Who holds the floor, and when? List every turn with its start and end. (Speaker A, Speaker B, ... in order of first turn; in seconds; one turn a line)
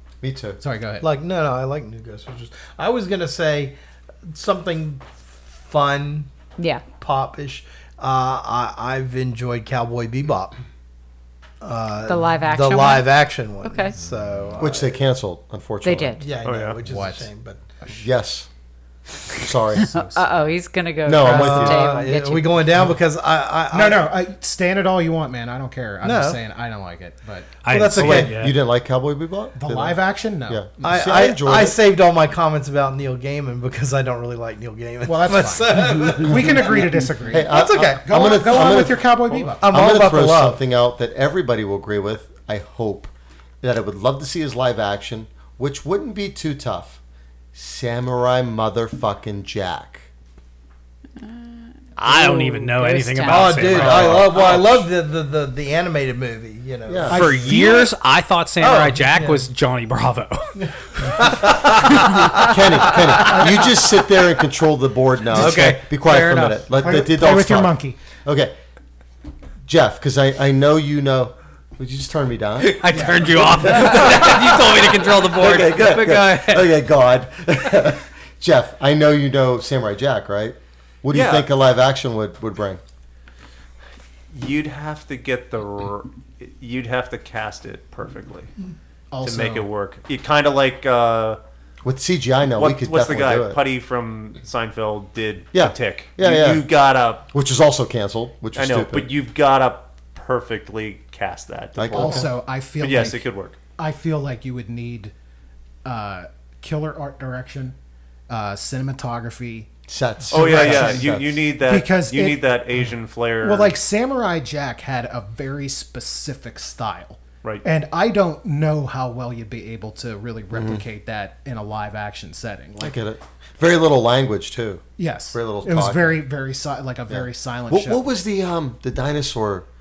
Speaker A: 0.2-0.6
Speaker B: 0.6-1.1
Speaker C: 1.0-6.3
Speaker D: 6.6-6.8
Speaker C: 6.9-10.6
Speaker C: 11.6-14.9
Speaker D: 12.1-13.1
Speaker D: 13.6-13.9
Speaker A: 14.6-16.2
Speaker D: 15.8-16.2
Speaker C: 16.2-17.7
Speaker E: 16.4-16.8
Speaker B: 16.8-17.3
Speaker B: 17.8-18.1
Speaker A: 17.9-18.5
Speaker A: 19.4-19.9
Speaker D: 19.8-22.6
Speaker B: 19.9-20.4
Speaker A: 21.1-21.9
Speaker C: 21.2-24.1
Speaker B: 23.7-27.6
Speaker C: 26.0-26.4
Speaker F: 27.6-28.6
Speaker C: 27.7-28.4
Speaker A: 27.9-31.8
Speaker B: 29.6-30.8
Speaker C: 30.8-38.1
Speaker B: 35.1-39.7
Speaker A: 36.3-39.1
Speaker C: 39.6-40.6
Speaker A: 39.6-47.0
Speaker A: 47.5-50.1
Speaker F: 52.0-54.2
Speaker D: 52.0-54.0
Speaker C: 53.2-57.9
Speaker A: 53.9-54.5
Speaker E: 54.1-54.7
Speaker A: 56.9-57.2
Speaker B: 57.1-57.6
Speaker F: 57.1-62.5
Speaker C: 58.6-59.5
Speaker C: 60.6-63.4
Speaker A: 62.4-68.5
Speaker F: 65.3-66.6
Speaker B: 66.8-68.0
Speaker A: 69.7-82.8
Speaker F: 72.6-76.7
Speaker B: 72.9-73.7
Speaker E: 81.1-81.5
Speaker E: 84.3-88.5
Speaker B: 89.1-89.7
Speaker E: 89.2-91.4
Speaker A: 91.8-93.6
Speaker E: 92.6-97.3
Speaker A: 95.5-96.7
Speaker A: 97.3-99.1
Speaker E: 98.5-103.6
Speaker A: 101.8-102.3
Speaker B: 101.9-103.2
Speaker B: 103.8-105.1
Speaker B: 105.8-107.8
Speaker B: 108.3-109.7
Speaker A: 109.9-111.4
Speaker B: 110.3-111.1
Speaker E: 110.3-113.8
Speaker B: 111.6-112.5
Speaker B: 113.4-123.0
Speaker A: 120.5-120.9
Speaker A: 122.8-126.2
Speaker B: 125.0-128.0
Speaker A: 127.1-129.7